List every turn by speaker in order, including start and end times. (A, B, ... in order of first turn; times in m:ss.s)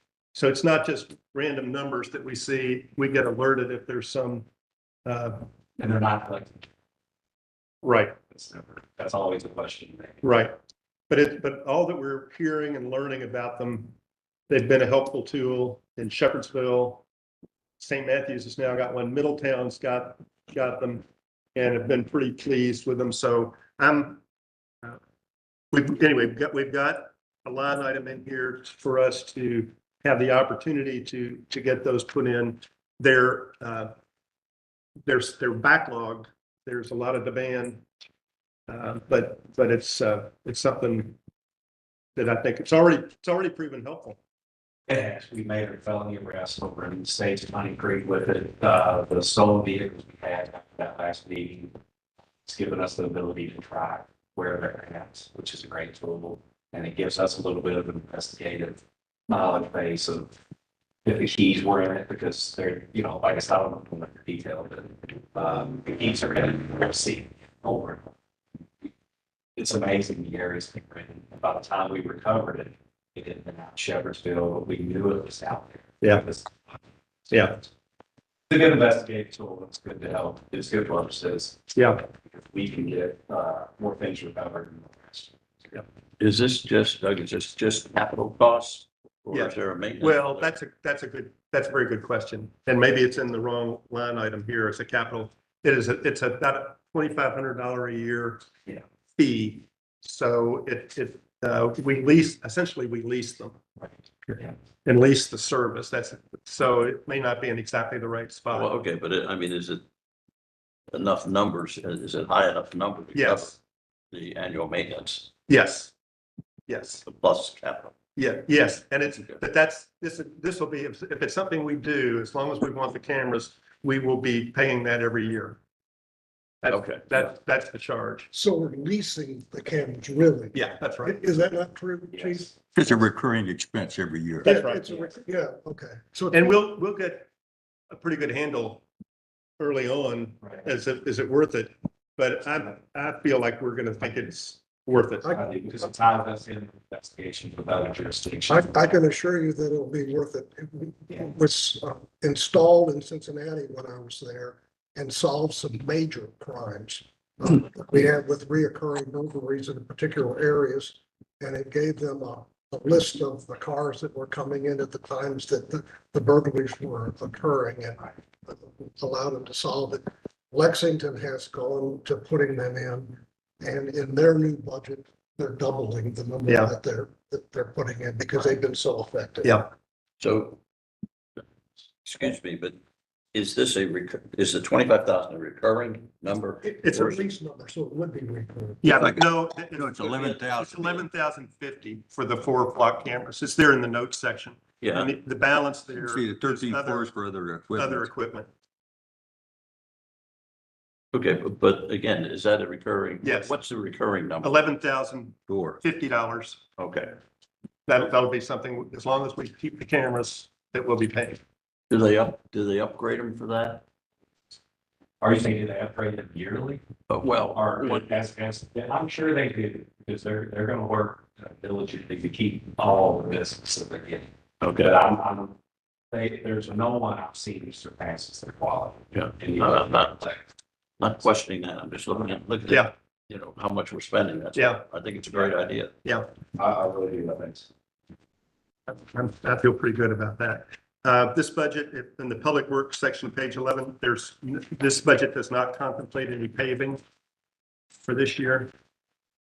0:00.3-0:04.4 A
0:05.0-0:05.4 A
0:05.8-0:06.6 B
0:07.8-0:08.2 A
0:08.3-0:10.2 B
0:10.2-0:10.5 A
0:11.1-0:13.9 A
0:14.5-0:17.0 A
0:17.8-0:21.0 A
0:21.5-0:24.2 A
0:25.7-0:33.9 A
0:35.0-0:37.8 A
0:38.7-0:41.2 A
0:42.2-0:44.2 A
0:44.9-0:51.7 B
0:52.4-1:00.3 B
1:01.0-1:08.0 B
1:09.6-1:16.8 B
1:17.3-1:17.6 A
1:18.5-1:25.3 B
1:21.7-1:22.0 A
1:26.2-1:30.5 C
1:29.3-1:38.5 A
1:39.2-1:43.6 A
1:44.3-1:48.7 A
1:48.5-1:49.8 C
1:50.9-1:53.5 C
1:53.1-1:53.6 A
1:54.1-1:55.3 C
1:55.5-1:55.9 A
1:56.7-1:57.0 A
1:57.0-1:57.9 C
1:58.2-2:05.6 A
2:06.6-2:08.3 A
2:06.7-2:07.2 C
2:08.3-2:12.5 D
2:10.5-2:11.2 A
2:12.1-2:12.5 B
2:12.7-2:14.5 E
2:14.4-2:15.1 A
2:14.4-2:16.6 D
2:16.3-2:17.3 A
2:17.9-2:18.8 A
2:19.6-2:25.3 A
2:25.3-2:28.7 B
2:28.5-2:59.6 D
2:56.5-2:56.7 A
2:59.4-2:59.7 A
3:00.2-3:00.6 C
3:02.0-3:02.8 C
3:03.3-3:07.2 C
3:06.6-3:08.9 D
3:06.8-3:07.1 A
3:08.8-3:17.1 A
3:09.0-3:11.1 E
3:14.8-3:15.1 C
3:16.0-3:18.1 E
3:17.7-3:18.5 A
3:21.1-3:24.6 C
3:23.2-3:23.6 A
3:24.4-3:26.6 A
3:25.5-3:25.8 E
3:26.8-3:27.1 C
3:27.9-3:31.4 A
3:31.9-3:33.8 C
3:35.2-3:36.8 B
3:37.1-3:38.1 C
3:37.5-3:45.5 B
3:44.6-3:44.9 C
3:46.1-3:50.4 B
3:49.1-3:50.2 C
3:51.0-3:56.0 C
3:54.5-3:55.5 A
3:56.6-3:57.7 B
3:58.9-4:07.0 A
4:08.0-4:08.7 A